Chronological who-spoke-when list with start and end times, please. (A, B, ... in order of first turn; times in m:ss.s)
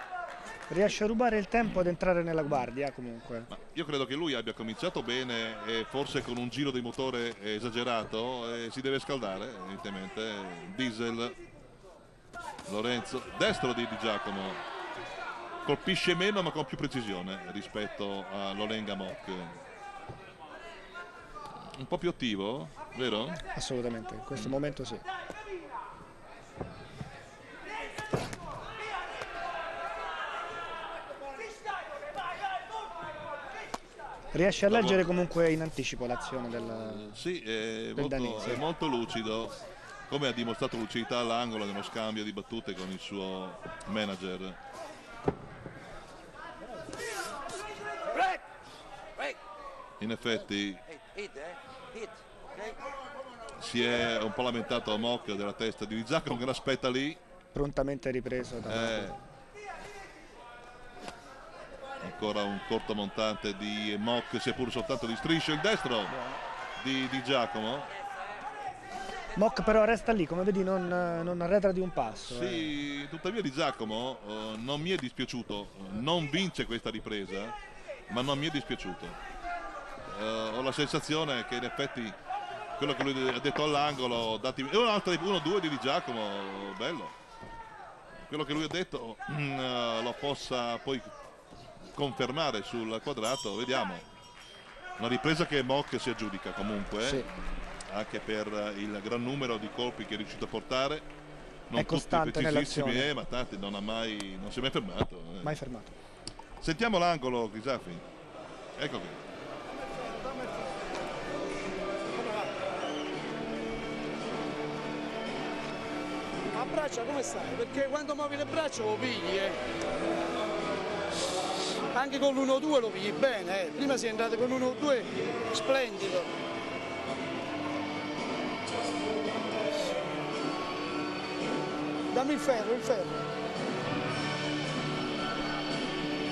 0:00.7-0:03.5 A
0:03.5-0:11.4 B
0:12.7-0:14.6 B
0:15.6-0:19.6 B
0:21.8-0:23.4 B
0:23.5-0:25.0 A
0:34.3-0:37.0 A
0:34.7-0:35.1 B
0:36.7-0:39.5 B
0:38.0-0:38.6 A
0:40.1-0:44.6 B
0:50.0-0:50.8 B
0:53.6-0:57.2 B
0:57.5-0:59.1 A
0:58.7-0:59.2 B
1:02.0-1:06.1 B
1:06.1-1:06.4 A
1:06.8-1:07.9 B
1:09.3-1:12.8 A
1:12.2-1:17.6 B
1:18.1-1:19.2 B
1:20.1-1:22.2 B
1:22.8-1:27.1 B
1:28.2-1:31.1 B
1:31.9-1:34.0 B
1:35.0-1:37.3 B
1:37.0-1:37.3 A
1:37.8-1:41.0 B
1:41.7-1:45.6 B
1:41.8-1:43.1 A
1:45.4-1:45.9 A
1:46.6-1:48.0 B
1:48.8-1:49.2 B
1:50.1-1:50.7 C
1:52.2-1:52.5 C
1:56.5-1:59.6 C
2:01.9-2:06.3 C
2:12.1-2:13.2 C